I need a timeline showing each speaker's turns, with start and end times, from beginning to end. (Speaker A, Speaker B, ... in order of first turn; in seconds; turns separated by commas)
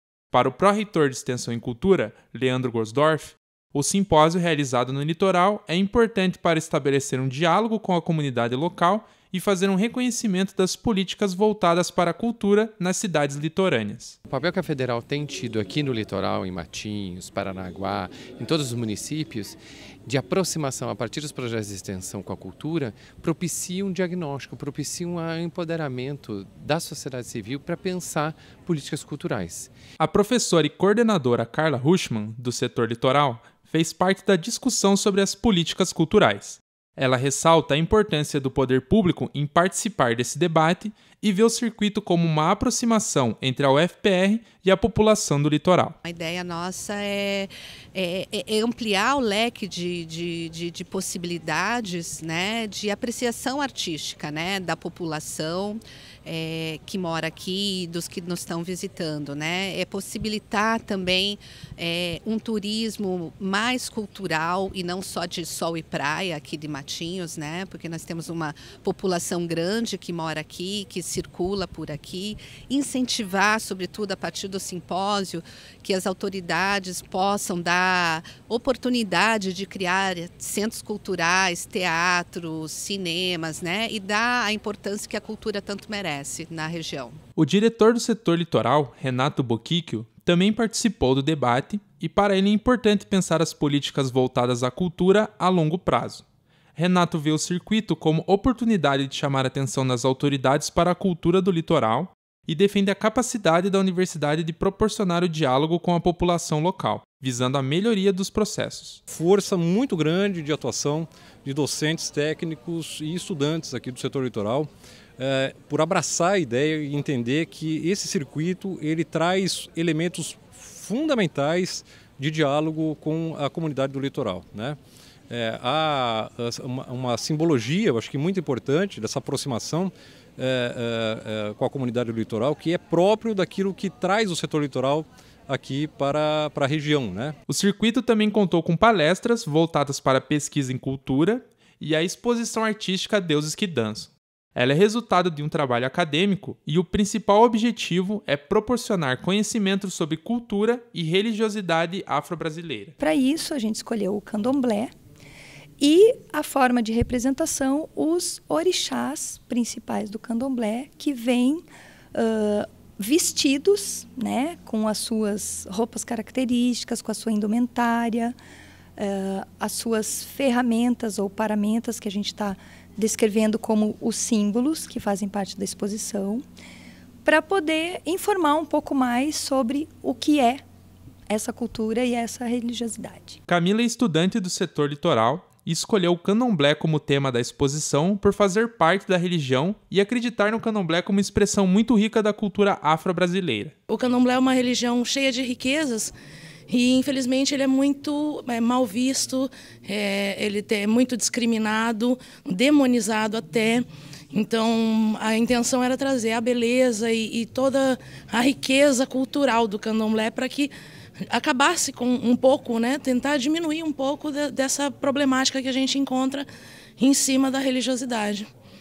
Speaker A: 0.3-14.2, Speaker B: 14.3-29.7, Speaker A: 30.0-46.0, Speaker C: 46.0-87.2, Speaker A: 87.4-96.2, Speaker A: 96.8-109.0, Speaker D: 109.1-124.8, Speaker D: 125.3-137.4, Speaker A: 137.5-152.9, Speaker E: 153.0-154.9, Speaker E: 155.8-168.3, Speaker E: 169.0-176.4, Speaker E: 177.2-180.6, Speaker E: 181.3-183.4, Speaker A: 183.5-193.7, Speaker F: 193.9-196.1, Speaker F: 196.7-210.7, Speaker F: 211.3-216.5, Speaker F: 217.0-218.5